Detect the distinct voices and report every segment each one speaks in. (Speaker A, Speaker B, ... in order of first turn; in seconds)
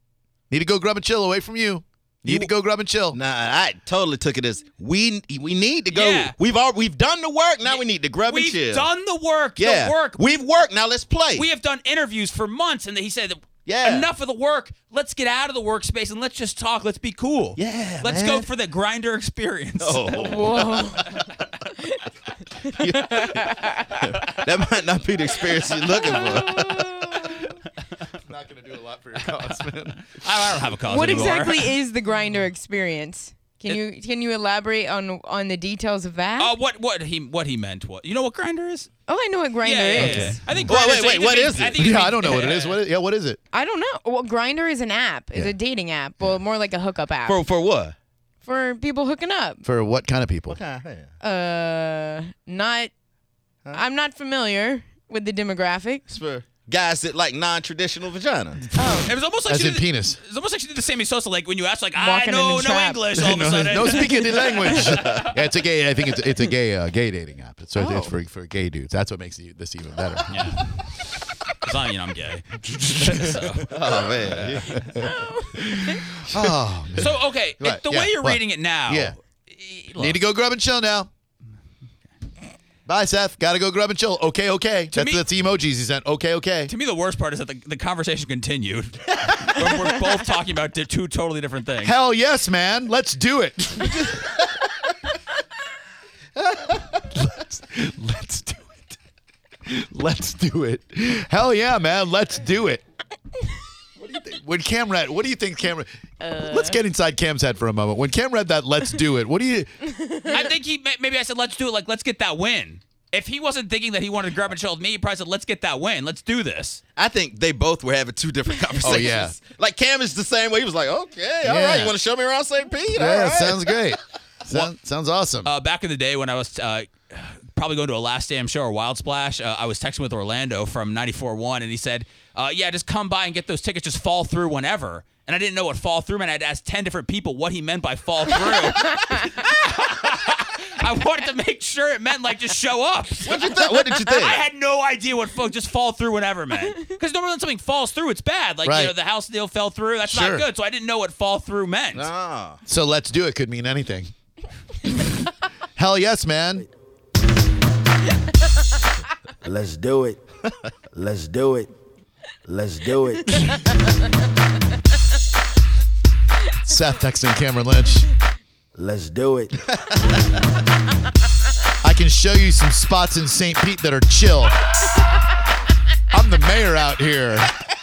Speaker A: 0.5-3.2, 28.2-31.4, 40.0-40.7, 41.7-43.4, 49.6-50.6, 59.5-60.2, 63.1-70.9, 72.7-73.9, 74.6-79.1, 80.0-81.1, 82.8-86.7, 91.8-94.2, 96.9-98.8, 99.6-102.8, 104.0-110.0, 118.8-119.3, 121.4-122.0, 122.9-125.5, 148.6-148.9, 150.0-150.4, 152.7-154.1, 155.8-156.6, 166.6-168.1, 171.8-174.6, 176.1-177.5
Speaker B: 3.1-8.8, 9.6-11.5, 13.6-14.1, 17.6-18.4, 19.8-21.1, 22.7-26.9, 40.7-41.8, 47.2-47.9, 50.5-51.1, 56.1-58.6, 64.9-65.2, 67.8-68.1, 73.7-74.8, 117.0-123.8, 143.2-144.4, 151.9-152.6
Speaker C: 5.9-6.3, 7.6-10.2, 11.3-20.2, 30.1-31.7, 36.4-38.9, 39.6-42.8, 59.0-65.3, 70.3-70.7, 71.4-74.8, 77.0-80.2, 84.9-85.2, 86.7-91.9, 110.3-116.8, 125.4-152.1
Speaker D: 20.1-21.1, 22.6-24.0, 26.4-27.4, 30.9-36.5, 39.1-40.4, 43.5-47.4, 48.4-49.6, 51.2-52.9, 53.7-56.0, 58.8-59.1, 62.0-63.0, 75.1-75.5, 106.2-106.8
Speaker E: 159.4-160.2, 160.9-161.7, 162.4-163.6, 168.8-169.6